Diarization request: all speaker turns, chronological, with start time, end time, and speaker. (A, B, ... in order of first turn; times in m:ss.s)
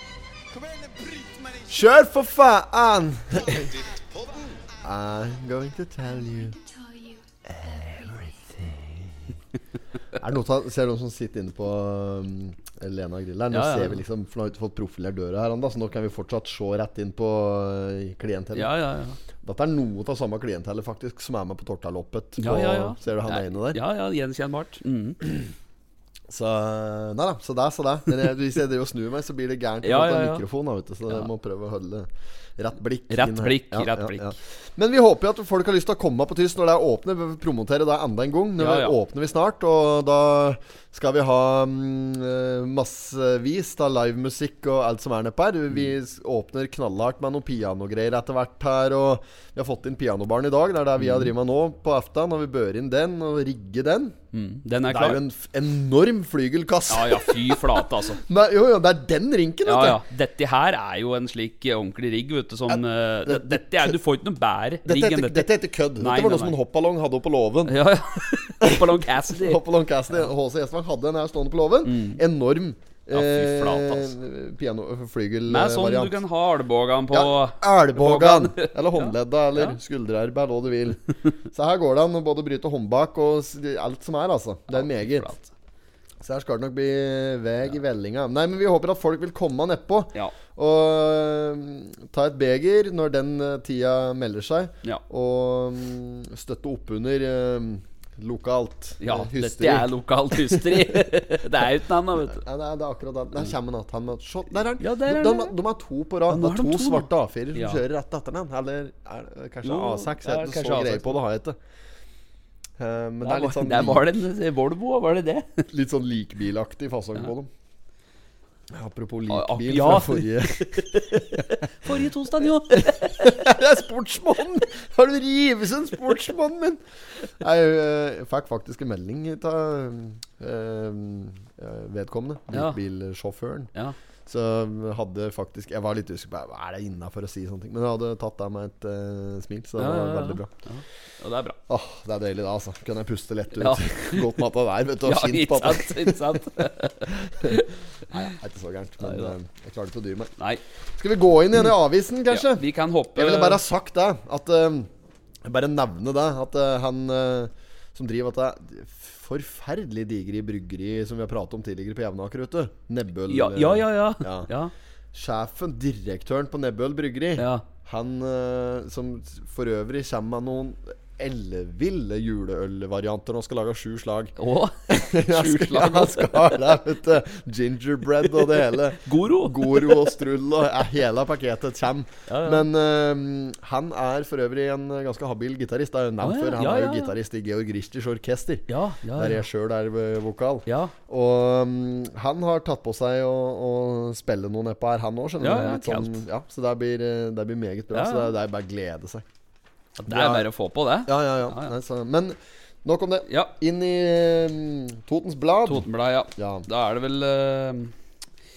0:00.5-0:01.7 A
0:01.7-0:03.8 B
0:03.6-0:04.5 A
0:04.8-0:06.5 B
0:06.0-0:08.4 C
0:07.4-0:09.3 B
0:10.1-0:18.7 B
0:13.5-0:14.0 D
0:18.5-0:19.2 D
0:19.4-0:23.8 B
0:22.4-0:25.2 D
0:26.3-0:54.1 B
0:29.8-0:30.4 D
0:33.1-0:34.3 D
0:38.6-0:39.0 D
0:51.0-0:51.3 D
0:54.3-0:55.2 D
0:54.9-1:00.0 B
0:56.9-0:58.2 D
0:59.6-1:06.6 D
1:02.7-1:03.9 B
1:04.8-1:07.7 B
1:07.7-1:10.2 D
1:08.6-1:16.1 B
1:11.8-1:12.2 D
1:13.1-1:14.1 D
1:15.5-1:19.8 D
1:17.1-1:21.0 B
1:21.5-1:25.3 B
1:24.7-1:25.5 D
1:26.2-1:41.0 B
1:39.0-1:42.4 D
1:42.2-1:51.6 B
1:44.8-1:45.5 D
1:46.3-1:47.8 D
1:49.6-1:51.2 D
1:52.8-1:54.1 B
1:53.2-1:55.6 D
1:55.7-1:57.5 B
1:58.7-2:01.4 B
1:59.3-2:03.4 D
2:02.7-2:13.7 B
2:14.2-2:20.5 B
2:19.8-2:21.6 D
2:21.7-2:30.3 B
2:23.6-2:24.4 D
2:25.0-2:27.7 D
2:29.0-2:29.3 D
2:31.0-2:34.9 B
2:32.3-2:33.6 D
2:35.4-2:44.5 B
2:43.3-2:44.7 D
2:45.1-2:54.4 B
2:47.4-2:47.6 D
2:54.4-2:56.6 D
2:54.9-3:19.2 B
2:58.3-3:00.0 D
3:02.3-3:02.6 D
3:06.2-3:07.1 D
3:08.7-3:09.4 D
3:10.6-3:10.9 D
3:15.4-3:16.2 D
3:17.9-3:18.3 D
3:20.0-3:21.7 D
3:20.0-3:20.5 B
3:21.0-3:26.6 B
3:23.3-3:23.5 D
3:25.7-3:27.9 D